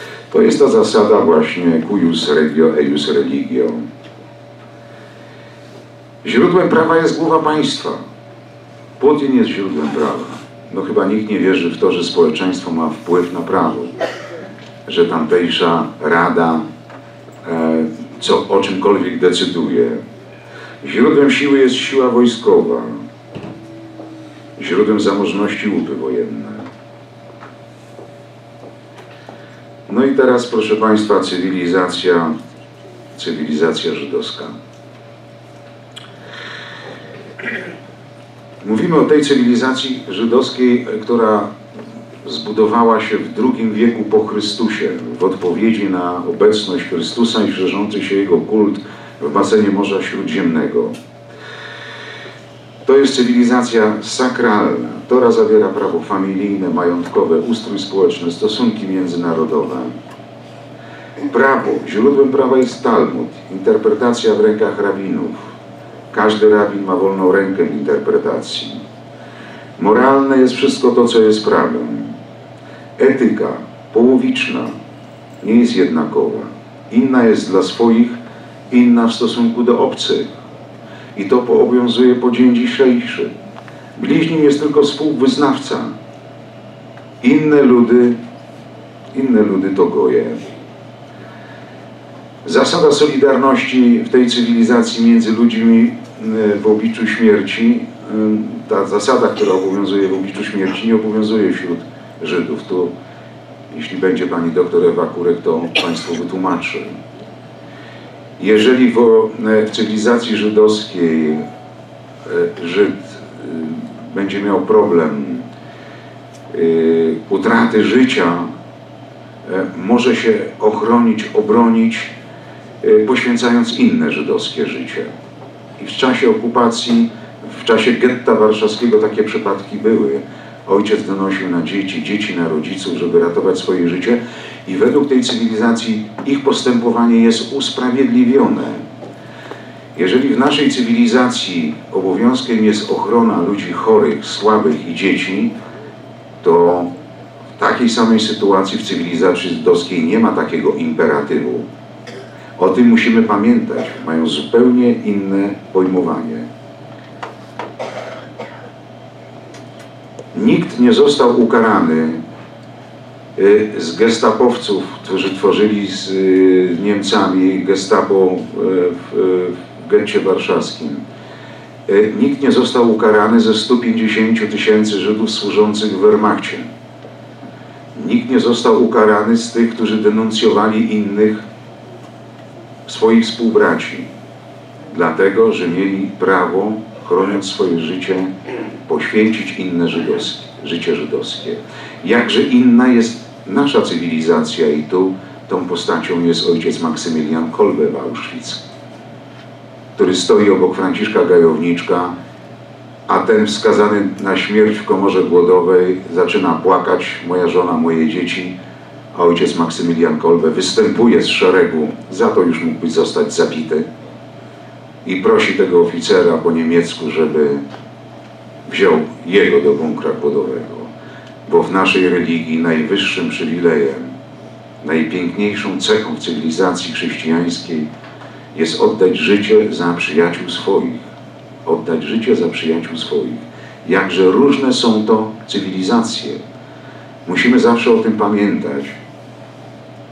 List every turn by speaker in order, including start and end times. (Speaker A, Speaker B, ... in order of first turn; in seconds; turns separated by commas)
Speaker A: 0.3-3.8, Speaker A: 6.2-8.0, Speaker A: 9.0-13.9, Speaker A: 14.9-16.6, Speaker A: 17.4-20.0, Speaker A: 20.8-23.0, Speaker A: 24.6-26.6, Speaker A: 29.9-32.3, Speaker A: 33.1-34.5, Speaker A: 38.6-41.5, Speaker A: 42.2-50.9, Speaker A: 52.8-59.9, Speaker A: 61.3-65.5, Speaker A: 66.1-68.8, Speaker A: 69.8-72.1, Speaker A: 73.0-74.7, Speaker A: 75.4-78.2, Speaker A: 78.7-80.3, Speaker A: 81.2-83.3, Speaker A: 84.0-85.9, Speaker A: 87.2-88.2, Speaker A: 89.1-90.5, Speaker A: 92.4-102.9, Speaker A: 103.7-106.9, Speaker A: 108.4-111.4, Speaker A: 112.2-115.5, Speaker A: 116.5-118.5, Speaker A: 119.4-122.1, Speaker A: 122.8-125.1, Speaker A: 125.8-138.8, Speaker A: 139.9-145.5, Speaker A: 146.4-146.9, Speaker A: 147.6-151.7, Speaker A: 152.6-156.5, Speaker A: 160.3-162.2, Speaker A: 163.3-171.0, Speaker A: 171.9-176.7, Speaker A: 177.9-181.4, Speaker A: 182.9-184.1, Speaker A: 184.9-188.3, Speaker A: 188.8-198.6, Speaker A: 199.9-202.1, Speaker A: 203.1-208.6, Speaker A: 209.1-213.8, Speaker A: 215.0-217.6, Speaker A: 218.7-220.9, Speaker A: 221.5-224.1, Speaker A: 224.8-227.9, Speaker A: 228.5-231.0, Speaker A: 231.6-236.4, Speaker A: 237.2-239.0